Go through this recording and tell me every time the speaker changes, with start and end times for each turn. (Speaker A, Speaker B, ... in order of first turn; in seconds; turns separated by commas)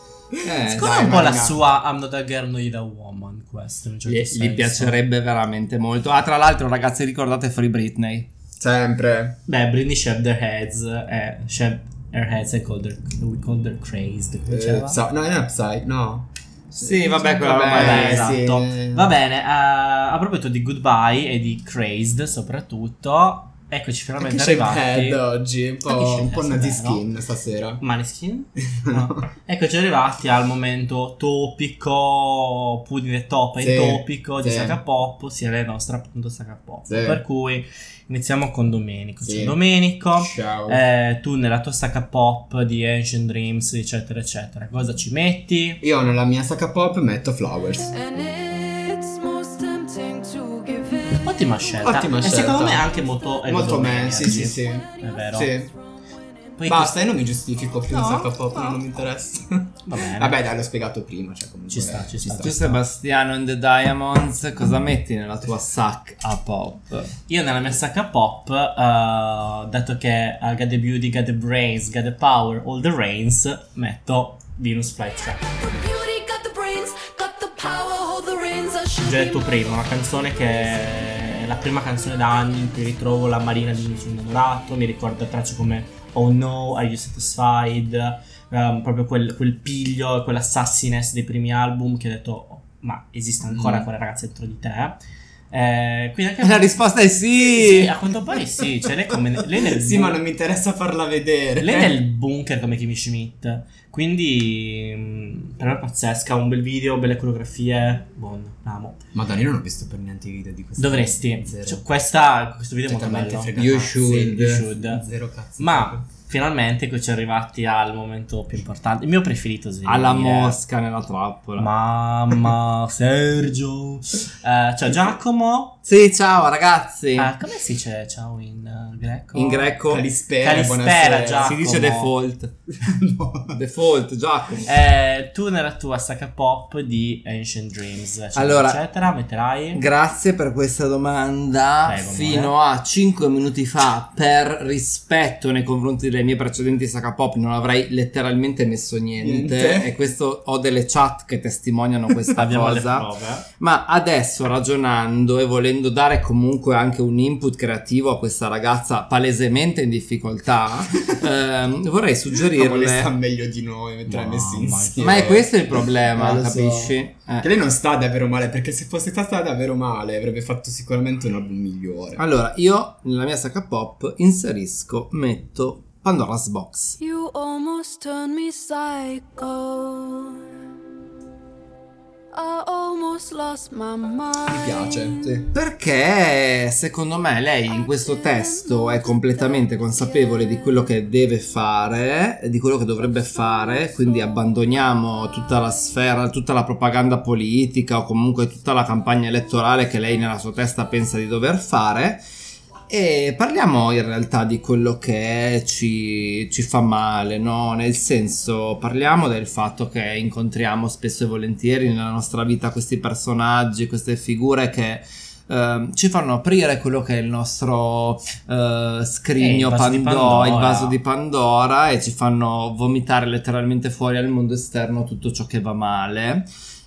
Speaker A: 0.4-1.6, Speaker B: 0.4-1.2, Speaker C: 0.7-5.0, Speaker B: 4.1-8.3, Speaker A: 8.6-9.4, Speaker C: 9.5-15.0, Speaker A: 14.5-19.1, Speaker B: 16.8-18.4, Speaker C: 17.6-25.2, Speaker A: 24.2-27.8, Speaker C: 25.9-27.0, Speaker C: 27.8-45.8, Speaker A: 33.6-34.8, Speaker A: 36.9-37.2, Speaker A: 39.2-39.6, Speaker A: 40.2-40.8, Speaker A: 45.8-47.9, Speaker D: 47.9-51.7, Speaker C: 51.2-55.5, Speaker A: 51.8-52.9, Speaker A: 53.5-55.7, Speaker D: 54.6-55.7, Speaker C: 56.6-57.0, Speaker A: 56.7-62.6, Speaker C: 57.9-58.3, Speaker C: 59.9-60.4, Speaker C: 61.7-62.9, Speaker B: 62.4-67.1, Speaker C: 67.3-75.5, Speaker D: 75.3-79.8, Speaker C: 79.0-95.0, Speaker D: 80.4-81.3, Speaker A: 93.5-93.9, Speaker C: 95.5-96.8, Speaker B: 96.4-97.9, Speaker C: 97.5-100.2, Speaker A: 99.8-101.9, Speaker C: 101.6-109.0, Speaker A: 109.2-111.8, Speaker C: 110.8-115.0, Speaker A: 112.9-116.0, Speaker B: 113.6-114.7, Speaker C: 115.6-120.6, Speaker B: 119.8-121.7, Speaker C: 121.6-125.8, Speaker B: 125.8-127.3, Speaker C: 127.2-129.8, Speaker B: 129.3-130.1, Speaker A: 129.9-131.7, Speaker C: 130.4-132.1, Speaker B: 131.4-132.6, Speaker A: 132.8-133.6, Speaker B: 133.5-134.7, Speaker C: 134.6-139.8, Speaker B: 138.3-138.8, Speaker B: 139.7-163.1, Speaker C: 141.8-142.5, Speaker A: 149.2-149.9, Speaker C: 152.4-153.5, Speaker A: 162.4-172.2, Speaker C: 164.1-165.3, Speaker B: 165.0-167.5, Speaker B: 172.2-177.0, Speaker D: 177.0-180.4, Speaker D: 182.3-185.5, Speaker A: 184.4-185.5, Speaker B: 185.5-202.2, Speaker D: 187.7-190.7, Speaker D: 193.5-194.0, Speaker B: 202.9-226.5, Speaker C: 219.4-220.9